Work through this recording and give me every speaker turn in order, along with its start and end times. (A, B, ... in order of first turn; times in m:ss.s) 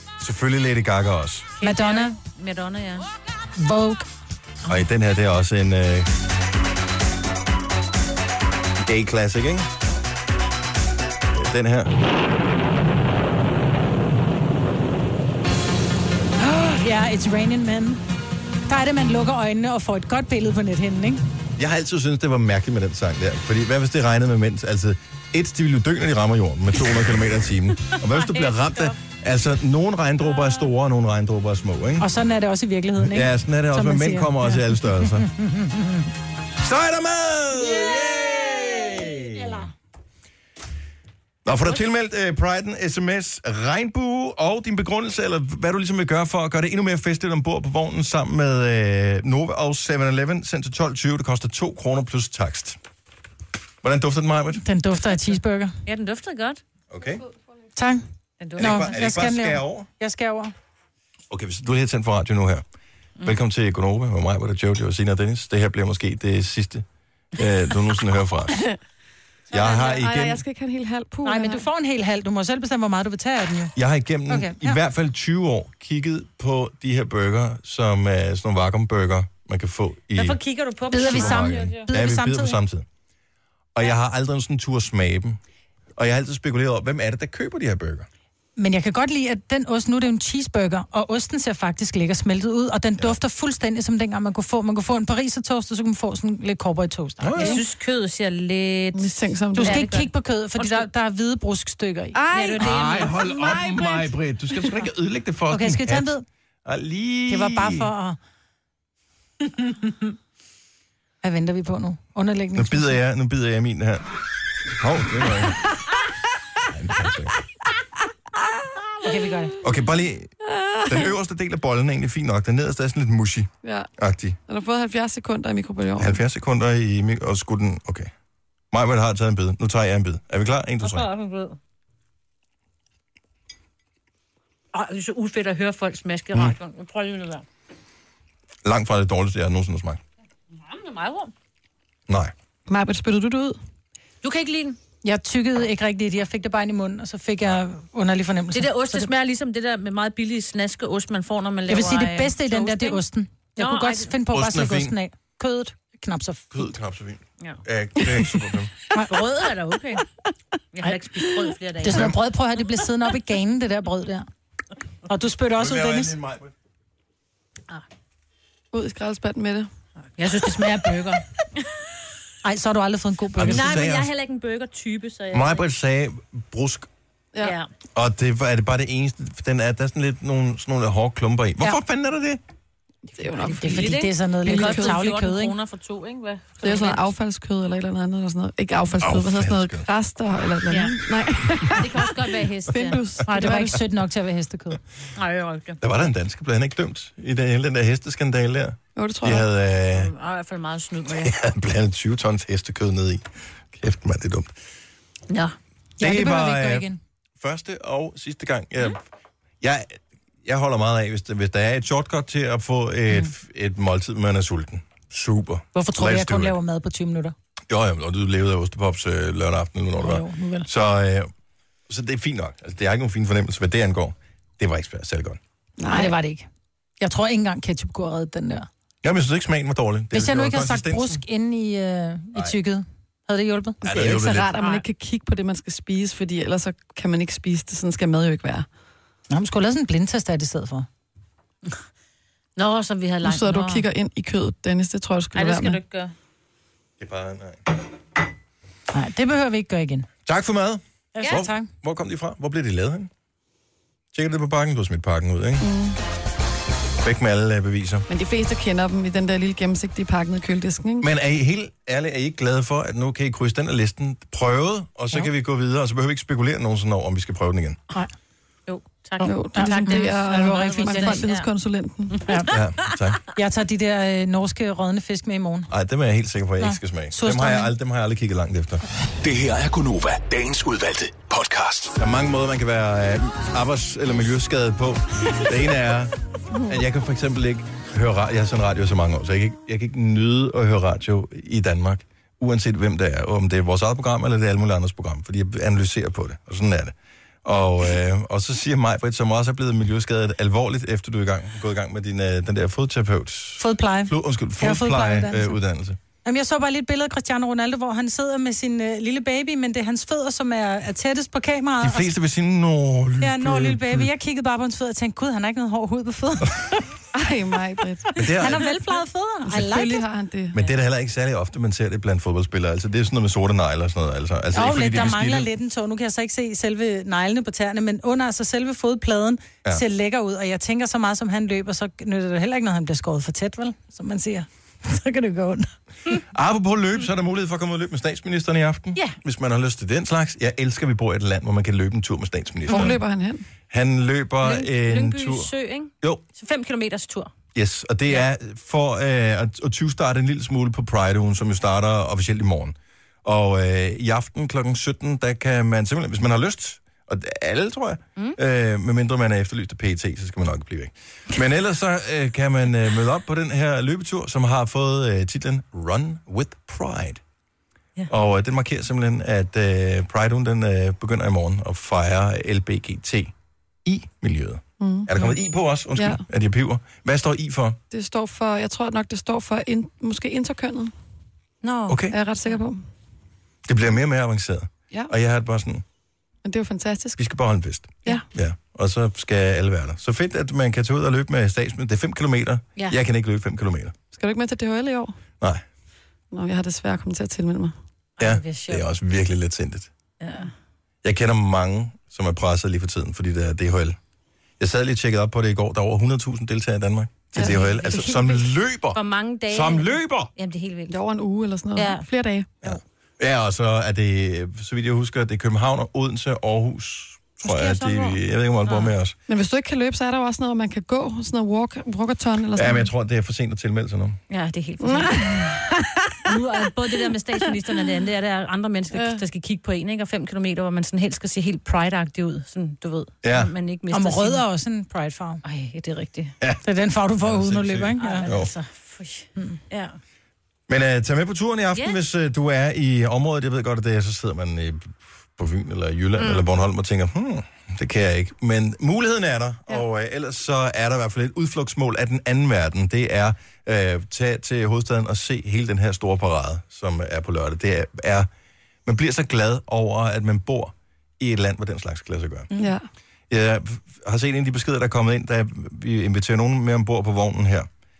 0:00.2-0:01.5 A
0:01.6-0:03.1 B
0:01.6-0:02.2 C
0:03.6-0:04.0 C
0:04.6-0:06.1 A
0:08.8-0:09.7 A
0:11.3-0:11.9 A
0:16.4-0:18.0 C
0:18.7-0:21.2 C
0:21.6-0:32.1 A
0:28.0-0:29.0 B
0:32.0-0:36.0 C
0:33.0-0:35.3 A
0:36.6-0:39.7 A
0:39.0-0:39.7 C
0:41.4-0:52.8 A
0:53.8-0:54.6 A
0:54.6-0:55.8 C
0:55.8-0:56.6 B
0:56.9-0:57.2 A
0:57.8-0:58.0 C
0:58.4-0:59.0 B
0:58.6-0:59.9 A
0:58.6-1:00.5 C
1:01.3-1:02.6 A
1:03.2-1:08.7 A
1:09.5-1:10.4 A
1:09.5-1:11.6 D
1:11.2-1:13.7 C
1:13.8-1:20.4 A
1:14.3-1:14.8 C
1:20.1-1:21.9 B
1:20.9-1:22.6 C
1:21.0-1:22.8 A
1:23.7-1:25.4 A
1:26.0-1:28.1 A
1:28.6-1:37.6 C
1:37.2-1:37.6 A
1:37.4-1:40.9 B
1:38.9-1:39.8 D
1:39.6-1:42.2 C
1:42.1-1:43.1 D
1:42.3-1:44.0 B
1:42.6-1:46.1 A
1:45.5-1:46.2 C
1:46.6-1:47.9 A
1:47.3-1:48.2 C
1:51.2-1:53.0 C
1:52.6-1:54.1 A
1:54.8-1:55.7 A
1:56.6-1:57.4 A
1:59.0-1:59.6 C
1:59.6-2:00.3 A
2:00.8-2:04.4 A
2:03.6-2:03.9 D
2:04.5-2:06.2 D
2:06.0-2:08.1 A
2:08.7-2:11.1 A
2:10.8-2:11.6 B
2:14.7-2:17.4 B
2:18.6-2:20.0 A
2:20.6-2:21.3 B
2:22.1-2:22.3 A
2:22.7-2:23.6 D
2:24.2-2:24.8 B
2:25.0-2:29.1 C
2:28.5-2:33.0 B
2:31.7-2:36.5 C
2:33.6-2:34.1 B
2:34.3-2:35.0 A
2:36.5-2:38.7 A
2:38.0-2:38.4 D
2:39.1-2:40.0 B
2:40.7-2:42.1 B
2:41.8-2:44.3 C
2:41.9-2:42.2 A
2:45.1-2:46.1 C
2:45.6-2:46.5 A
2:48.7-2:49.7 D
2:50.2-2:51.7 B
2:52.4-2:53.8 C
2:53.3-2:54.1 A
2:53.4-2:55.6 B
2:55.3-2:56.9 A
2:57.4-2:57.7 B
2:57.9-3:02.4 A
3:03.1-3:05.0 D
3:03.4-3:07.1 B
3:03.6-3:05.5 C
3:06.6-3:13.8 D
3:09.0-3:09.8 A
3:10.7-3:11.0 B
3:11.7-3:13.5 B
3:13.2-3:14.8 C
3:15.1-3:15.8 B
3:15.8-3:20.1 A
3:19.0-3:19.5 D
3:19.9-3:21.3 B
3:21.2-3:24.5 A
3:25.3-3:25.6 B
3:26.0-3:27.0 C
3:26.0-3:29.0 A
3:29.6-3:36.6 A
3:35.7-3:37.3 C
3:37.7-3:41.3 A
3:40.0-3:40.7 C
3:41.9-3:45.4 A
3:45.8-3:46.2 D
3:45.9-3:46.5 C
3:47.0-3:48.7 C
3:49.0-3:51.2 A
3:50.1-3:54.8 C
3:53.8-3:58.7 D
3:53.8-3:54.5 A
3:59.3-4:00.9 C
4:02.6-4:03.9 B
4:03.2-4:05.8 D
4:05.3-4:06.1 B
4:07.0-4:07.7 A
4:08.9-4:10.1 C
4:10.2-4:13.1 A
4:11.1-4:11.7 C
4:14.1-4:15.7 A
4:15.6-4:16.0 D
4:17.0-4:18.1 A
4:18.1-4:21.1 D
4:21.0-4:27.8 A
4:28.7-4:31.5 B
4:29.2-4:31.2 C
4:29.2-4:32.2 D
4:32.1-4:32.9 B
4:32.5-4:33.2 A
4:33.3-4:35.7 C
4:35.7-4:38.8 A
4:36.6-4:37.7 C
4:39.2-4:42.0 E
4:42.0-5:06.0 A
5:03.6-5:05.6 C
5:06.2-5:12.1 C
5:11.8-5:14.1 A
5:13.2-5:16.8 C
5:17.1-5:18.2 D
5:18.1-5:20.0 C
5:18.2-5:18.7 A
5:19.4-5:20.5 D
5:20.5-5:25.5 A
5:24.5-5:35.7 C
5:36.3-5:43.0 A
5:42.7-5:43.0 B
5:42.7-5:43.4 D
5:43.7-5:45.5 A
5:44.4-5:47.3 B
5:47.5-6:07.2 A
6:08.1-6:13.3 A
6:13.8-6:17.8 A
6:14.8-6:15.1 D
6:16.0-6:16.2 D
6:17.9-6:20.9 D
6:21.6-6:22.6 B
6:21.9-6:22.2 A
6:22.1-6:22.8 D
6:23.6-6:25.8 A
6:26.4-6:27.2 D
6:27.2-6:33.9 A
6:34.1-6:35.2 D
6:36.3-6:37.7 D
6:38.2-6:39.9 A
6:38.2-6:38.8 B
6:40.2-6:40.5 B
6:41.0-6:44.0 A
6:44.6-6:50.3 A
6:47.4-6:51.0 B
6:50.9-6:52.5 D
6:51.7-6:52.1 B
6:52.6-6:59.1 A
6:57.4-6:58.9 B
6:59.3-7:02.9 D
7:02.5-7:04.2 A
7:04.3-7:05.6 B
7:04.8-7:06.2 D
7:06.2-7:14.4 B
7:08.9-7:09.2 D
7:13.2-7:13.5 A
7:13.9-7:15.4 C
7:15.4-7:16.4 B
7:16.6-7:18.3 C
7:17.2-7:18.5 A
7:18.0-7:20.0 B
7:20.7-7:38.3 A
7:26.2-7:26.4 B
7:38.8-7:42.5 A
7:42.6-7:42.8 D
7:43.3-7:47.7 A